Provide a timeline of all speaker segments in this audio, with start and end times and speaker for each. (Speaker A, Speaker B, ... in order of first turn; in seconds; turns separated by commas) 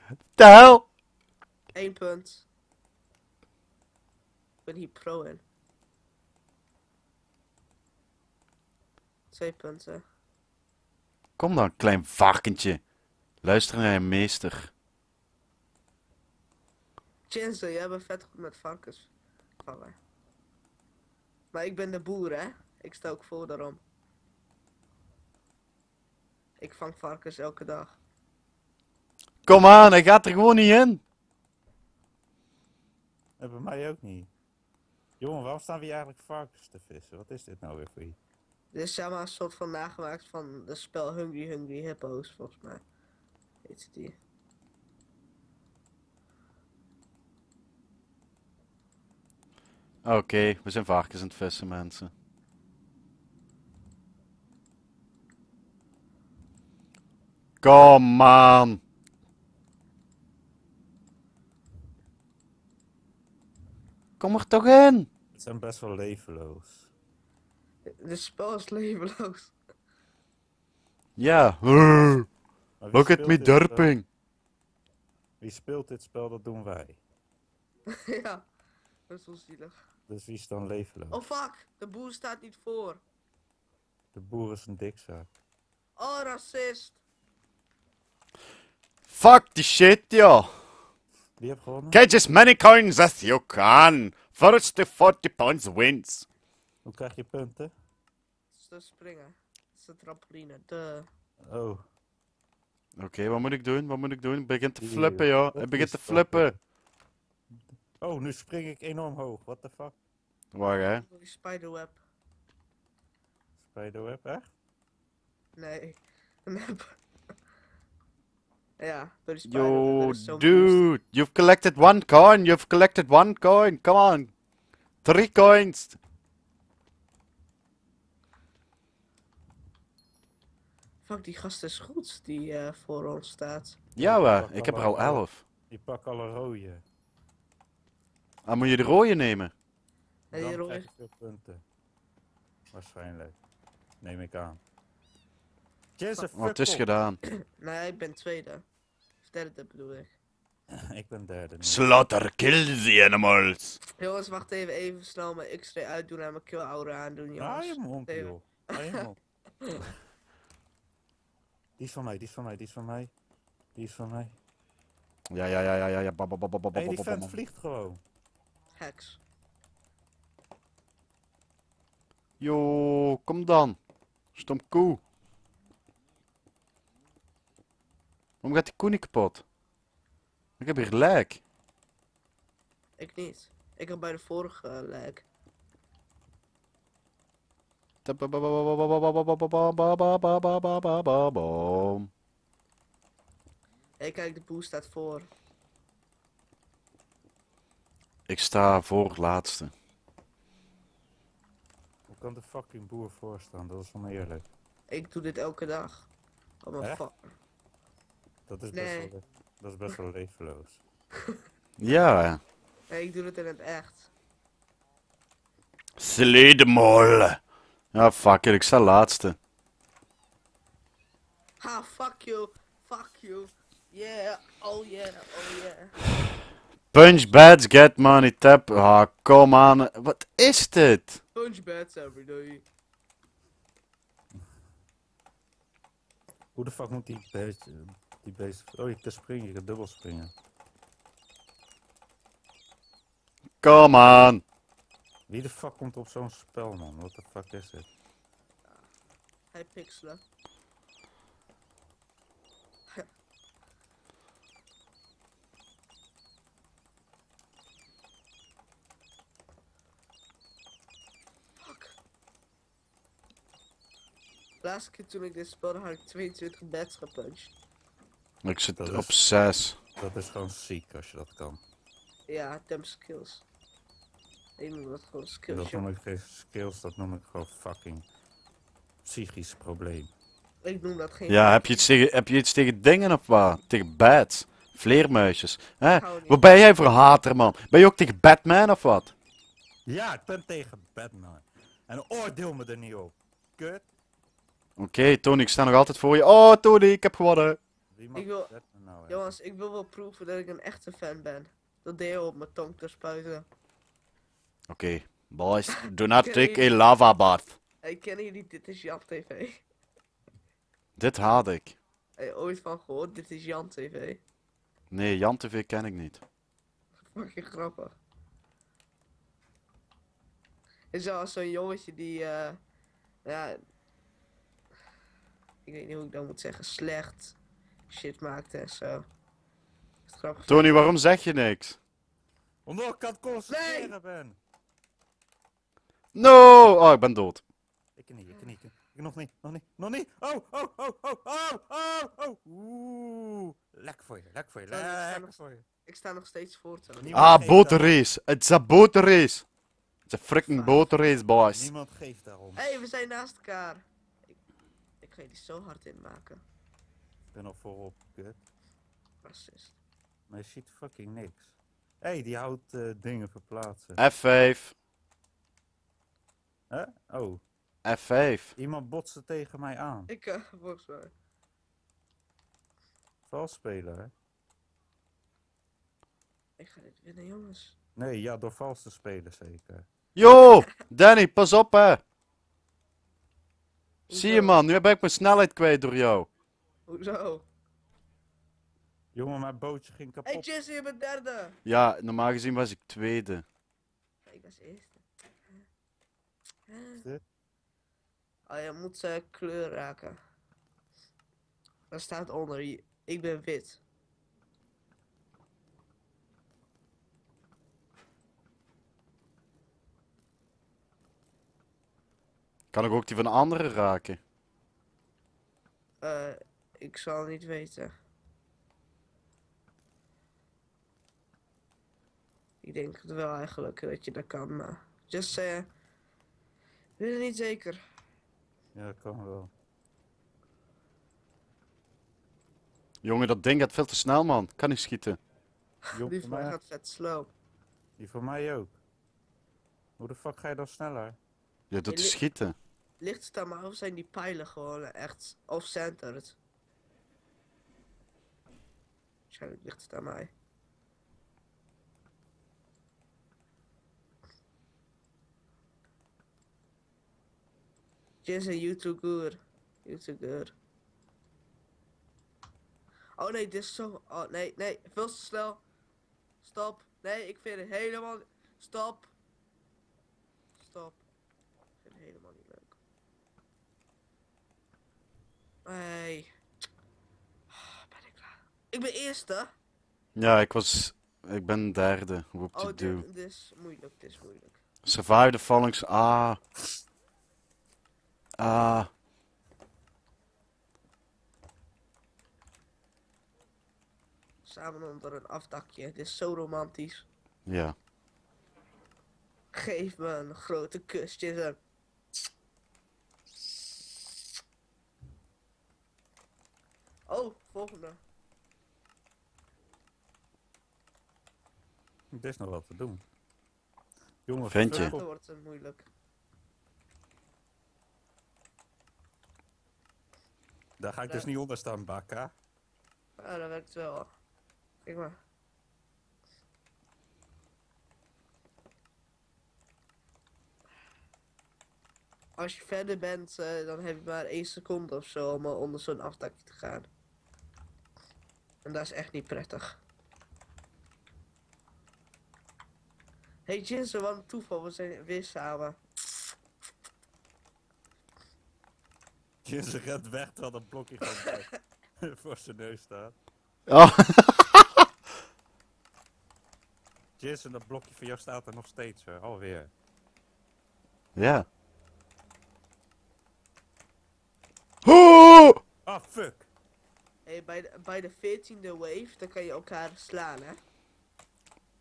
Speaker A: 0.4-0.8, Speaker B: 1.7-2.5, Speaker B: 4.6-5.4, Speaker B: 9.3-10.0, Speaker A: 11.4-12.8, Speaker A: 13.4-14.7, Speaker B: 17.3-19.1, Speaker B: 19.6-20.0, Speaker B: 21.5-23.8, Speaker B: 26.6-28.0, Speaker A: 29.4-31.0, Speaker C: 33.4-34.3, Speaker C: 35.2-38.2, Speaker B: 38.7-42.8, Speaker B: 43.6-44.2, Speaker A: 50.0-52.1, Speaker A: 57.6-58.8, Speaker A: 64.2-65.1, Speaker C: 65.3-66.9, Speaker B: 67.9-69.5, Speaker A: 71.2-72.3, Speaker C: 72.8-73.9, Speaker A: 72.9-74.0, Speaker C: 75.4-77.0, Speaker B: 77.9-78.5, Speaker B: 79.1-79.8, Speaker C: 80.1-81.2, Speaker B: 81.1-83.0, Speaker C: 84.1-85.3, Speaker B: 86.0-87.0, Speaker A: 89.1-90.5, Speaker C: 91.4-92.0, Speaker A: 91.9-96.3, Speaker C: 96.8-97.7, Speaker B: 98.5-101.1, Speaker C: 101.5-101.8, Speaker A: 103.0-106.5, Speaker C: 104.8-106.5, Speaker C: 108.0-110.0, Speaker A: 110.5-111.0, Speaker B: 111.0-112.0, Speaker C: 113.6-114.5, Speaker B: 115.5-117.0, Speaker B: 118.8-120.8, Speaker A: 119.4-124.3, Speaker A: 125.0-126.0, Speaker B: 131.0-133.8, Speaker A: 133.9-135.4, Speaker C: 134.0-136.8, Speaker A: 138.4-139.5, Speaker B: 140.3-140.9, Speaker C: 140.3-141.6, Speaker C: 142.7-143.4, Speaker C: 144.0-144.6, Speaker C: 146.0-146.8, Speaker A: 146.3-147.2, Speaker B: 147.3-148.6, Speaker B: 149.2-150.2, Speaker C: 150.7-152.0, Speaker A: 151.6-153.8, Speaker B: 154.0-159.0, Speaker C: 157.4-159.2, Speaker C: 161.8-163.1, Speaker C: 163.7-164.4, Speaker A: 165.3-167.3, Speaker C: 166.7-168.0, Speaker B: 168.8-169.2, Speaker A: 172.4-173.8, Speaker A: 174.3-175.0, Speaker A: 178.4-179.4, Speaker A: 180.6-181.4, Speaker B: 183.0-185.2, Speaker A: 188.0-192.1, Speaker B: 194.0-195.3, Speaker A: 198.3-199.7, Speaker C: 202.1-204.4, Speaker B: 204.9-206.1, Speaker B: 206.6-207.3, Speaker C: 208.5-210.8, Speaker B: 208.7-209.1, Speaker A: 211.8-212.4, Speaker B: 212.9-214.1, Speaker A: 216.0-217.4, Speaker A: 217.9-219.3, Speaker B: 221.6-226.1, Speaker A: 226.9-231.2, Speaker B: 231.3-232.6, Speaker C: 236.5-240.3, Speaker A: 243.6-244.4, Speaker C: 244.0-244.3, Speaker C: 245.3-247.9, Speaker B: 249.5-250.2, Speaker B: 261.6-262.0, Speaker B: 264.6-267.5, Speaker A: 268.4-269.8, Speaker C: 268.8-269.1, Speaker C: 270.0-271.6, Speaker B: 272.3-273.4, Speaker B: 274.6-275.8, Speaker C: 275.5-278.0, Speaker C: 279.0-280.1, Speaker B: 280.6-281.8, Speaker A: 281.3-289.1, Speaker B: 285.9-286.5, Speaker C: 289.9-293.9, Speaker A: 294.8-297.6, Speaker C: 297.9-299.3, Speaker B: 298.1-298.5, Speaker B: 299.1-303.5, Speaker A: 304.7-307.6, Speaker B: 305.7-306.7, Speaker B: 307.8-309.6, Speaker A: 311.0-311.8, Speaker B: 312.2-314.2, Speaker A: 314.9-316.2, Speaker B: 317.0-318.0, Speaker B: 320.9-322.6, Speaker B: 323.2-323.6, Speaker B: 325.6-327.4, Speaker B: 327.9-329.0, Speaker B: 330.1-330.9, Speaker A: 330.5-331.8, Speaker C: 332.6-334.4, Speaker B: 333.5-333.9, Speaker A: 336.1-337.4, Speaker C: 338.0-345.6, Speaker B: 344.7-347.3, Speaker C: 347.0-348.0, Speaker A: 347.1-349.4, Speaker A: 350.1-351.7, Speaker B: 350.4-350.9, Speaker C: 351.5-352.8, Speaker B: 352.6-353.8, Speaker B: 355.0-356.4, Speaker C: 357.3-358.4, Speaker B: 359.2-359.8, Speaker C: 360.3-364.0, Speaker A: 364.0-364.7, Speaker C: 366.7-367.4, Speaker A: 367.8-368.5, Speaker C: 368.6-370.1, Speaker B: 370.1-371.1, Speaker C: 373.3-374.1, Speaker B: 376.6-377.8, Speaker C: 378.0-379.9, Speaker A: 380.1-382.0, Speaker B: 384.1-384.6, Speaker A: 384.1-386.3, Speaker B: 386.9-387.4, Speaker C: 389.1-390.4, Speaker B: 390.2-391.6, Speaker A: 391.6-393.4, Speaker B: 394.2-395.0, Speaker B: 396.7-397.0, Speaker B: 398.5-400.2, Speaker B: 401.9-403.8, Speaker A: 412.7-414.2, Speaker B: 416.0-417.9, Speaker B: 422.6-425.7, Speaker B: 427.0-427.8, Speaker C: 428.7-429.5, Speaker A: 433.0-435.2, Speaker C: 435.9-436.6, Speaker B: 435.9-437.3, Speaker C: 438.0-438.8, Speaker C: 440.0-441.2, Speaker A: 441.7-442.5, Speaker B: 441.9-442.2, Speaker B: 443.0-446.4, Speaker B: 449.3-450.3, Speaker B: 458.2-460.5, Speaker B: 463.2-465.6, Speaker B: 466.4-469.1, Speaker B: 470.6-471.0, Speaker B: 471.8-472.7, Speaker B: 475.6-476.3, Speaker B: 477.5-479.5, Speaker A: 480.1-483.0, Speaker B: 482.5-484.6, Speaker A: 484.8-486.4, Speaker A: 488.4-488.9, Speaker B: 494.4-497.1, Speaker A: 497.5-497.7, Speaker B: 499.5-501.6, Speaker B: 507.1-508.0, Speaker C: 512.1-513.0, Speaker C: 514.3-515.1, Speaker A: 514.5-514.9, Speaker B: 514.7-515.9, Speaker C: 520.8-522.3, Speaker B: 523.2-524.1, Speaker B: 524.8-525.2, Speaker B: 532.4-536.9, Speaker B: 538.6-539.8, Speaker B: 543.5-545.8, Speaker C: 549.4-553.1, Speaker A: 553.7-554.8, Speaker C: 557.2-559.7, Speaker A: 561.1-561.5, Speaker A: 564.8-565.6, Speaker C: 565.9-566.5, Speaker B: 567.2-570.6